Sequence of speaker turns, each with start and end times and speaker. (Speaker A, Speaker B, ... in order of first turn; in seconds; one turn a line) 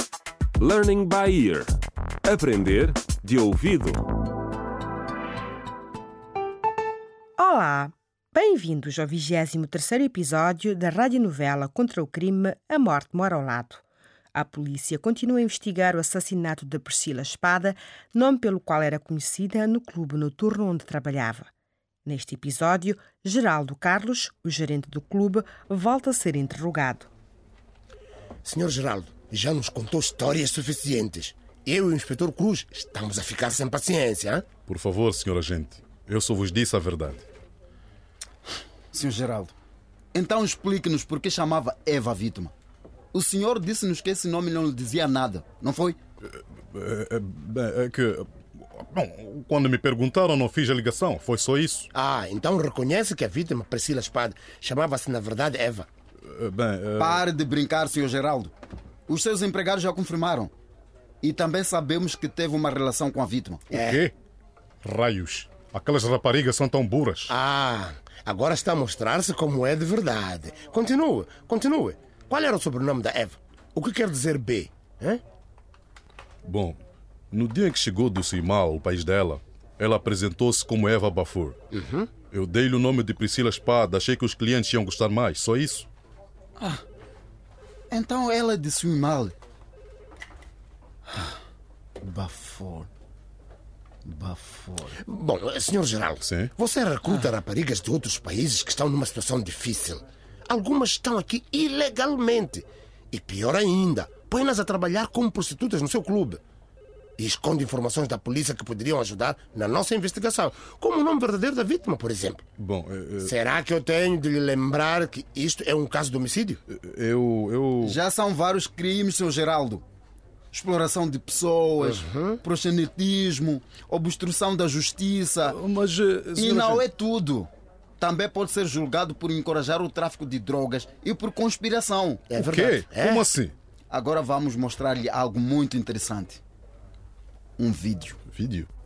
Speaker A: 0.6-4.1
Speaker B: 7.4-13.8
Speaker B: 14.3-21.5
Speaker B: 22.0-27.1
Speaker C: 28.4-34.5
Speaker D: 34.7-37.2
Speaker E: 38.9-39.5
Speaker E: 40.1-42.5
Speaker E: 43.1-46.0
Speaker D: 46.7-51.9
Speaker C: 51.9-55.9
Speaker D: 56.2-57.2
Speaker E: 57.0-58.5
Speaker E: 59.1-60.5
Speaker E: 61.2-63.7
Speaker D: 63.7-64.1
Speaker C: 63.7-64.1
Speaker D: 64.8-67.3
Speaker C: 67.3-75.2
Speaker D: 76.4-76.8
Speaker D: 77.3-81.6
Speaker C: 81.7-82.1
Speaker D: 82.3-85.9
Speaker E: 86.6-86.8
Speaker E: 87.9-89.3
Speaker E: 91.1-91.3
Speaker E: 92.0-92.9
Speaker E: 94.0-95.0
Speaker C: 95.0-106.4
Speaker D: 96.2-96.5
Speaker C: 107.2-112.4
Speaker D: 112.6-113.3
Speaker C: 113.2-116.6
Speaker D: 116.7-118.0
Speaker E: 117.8-119.8
Speaker E: 120.5-125.6
Speaker C: 121.8-122.4
Speaker D: 125.4-126.8
Speaker E: 126.3-132.3
Speaker C: 132.3-133.3
Speaker D: 132.3-133.5
Speaker E: 133.9-136.4
Speaker E: 137.6-138.2
Speaker D: 138.3-138.7